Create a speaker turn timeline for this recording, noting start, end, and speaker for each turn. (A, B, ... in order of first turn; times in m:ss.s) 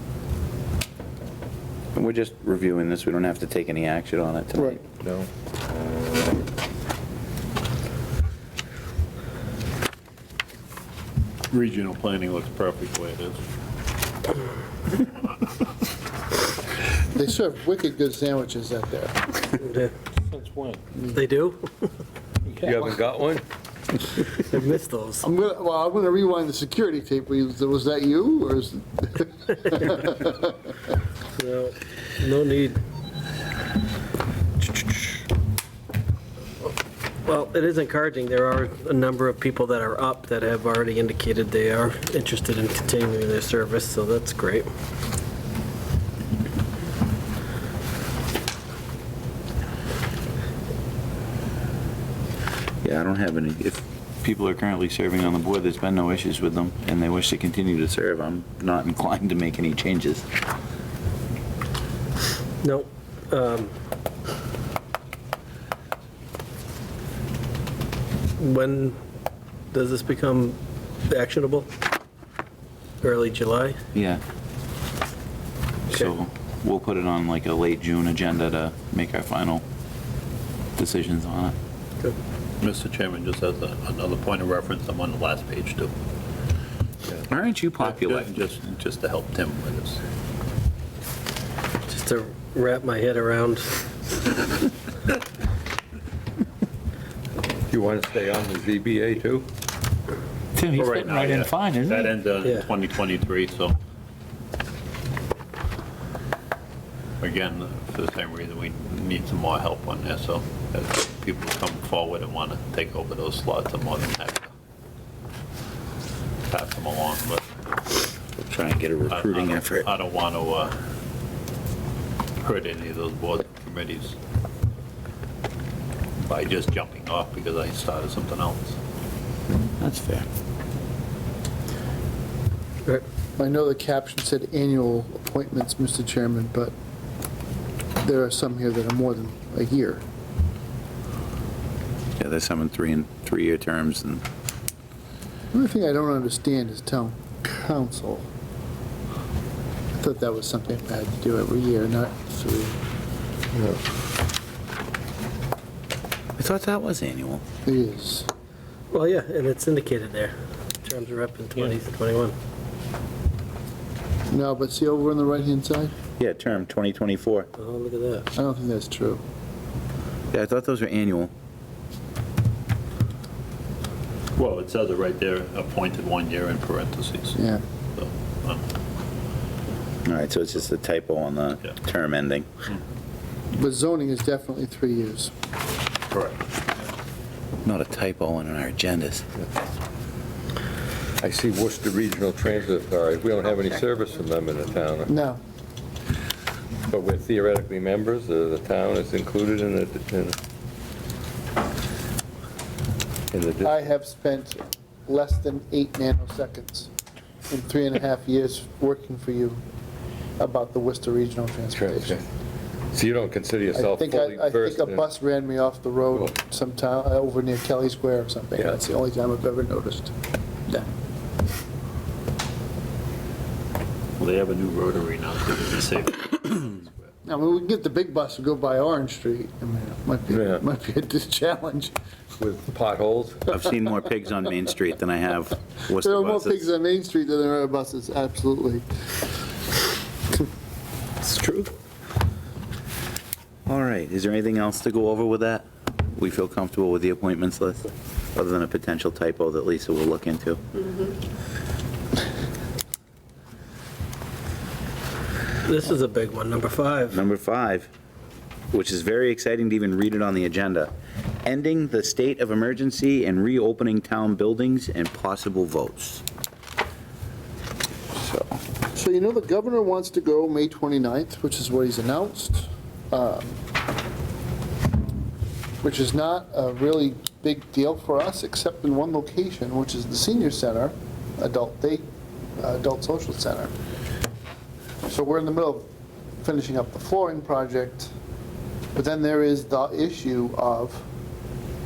0:02.0-0:04.8 A
0:04.6-0:04.8 B
0:11.5-0:13.4 C
0:17.1-0:19.5 B
0:19.6-0:19.9 D
0:21.1-0:21.7 D
0:22.6-0:23.4 E
0:24.4-0:25.3 D
0:25.2-0:30.5 B
0:31.4-0:32.8 D
0:34.7-0:35.2 D
0:37.3-0:44.7 D
0:52.8-1:00.3 A
1:02.6-1:03.7 D
1:08.4-1:09.0 D
1:09.7-1:10.6 D
1:11.1-1:11.7 D
1:13.0-1:13.8 D
1:13.9-1:14.2 A
1:15.9-1:19.6 A
1:20.8-1:21.6 A
1:22.6-1:25.9 C
1:27.3-1:28.3 A
1:27.8-1:30.0 C
1:31.9-1:33.8 D
1:37.7-1:39.5 E
1:40.6-1:42.2 A
1:40.8-1:43.8 C
1:42.4-1:42.7 D
1:47.2-1:54.5 C
1:56.5-1:57.5 C
1:58.5-1:59.9 A
1:59.1-2:00.8 C
2:02.4-2:04.2 C
2:06.3-2:08.7 C
2:09.8-2:10.3 A
2:13.4-2:16.7 B
2:18.0-2:20.0 B
2:22.2-2:24.2 A
2:25.5-2:28.3 B
2:30.0-2:32.8 B
2:36.4-2:37.4 A
2:37.6-2:38.3 B
2:38.9-2:42.4 D
2:44.3-2:45.9 B
2:46.2-2:47.5 A
2:47.6-2:48.3 D
2:48.4-2:49.2 B
2:50.3-2:51.3 A
2:54.4-2:57.4 C
2:57.4-2:57.6 B
2:58.0-2:58.6 C
3:00.0-3:02.5 A
3:03.5-3:05.3 B
3:06.1-3:06.5 C
3:07.6-3:09.3 A
3:11.2-3:15.1 E
3:15.1-3:15.4 B
3:16.9-3:20.4 E
3:23.3-3:23.8 E
3:23.6-3:26.9 B
3:27.5-3:29.6 B
3:30.4-3:32.2 B
3:31.7-3:32.2 E
3:32.9-3:35.1 E
3:33.7-3:40.1 B
3:44.2-3:46.9 C
3:47.2-3:51.9 B
3:50.3-3:50.6 E
3:52.4-3:53.6 E
3:53.5-3:56.7 A
3:55.9-3:58.8 B
4:03.7-4:10.6 A
4:15.6-4:17.2 D
4:17.1-4:17.9 A
4:18.7-4:20.9 A
4:21.4-4:26.2 A
4:28.2-4:28.6 A
4:28.9-4:33.6 B
4:35.8-4:42.1 B
4:42.6-4:43.7 B
4:45.1-4:45.9 B
4:46.4-4:48.1 B
4:49.0-4:51.0 B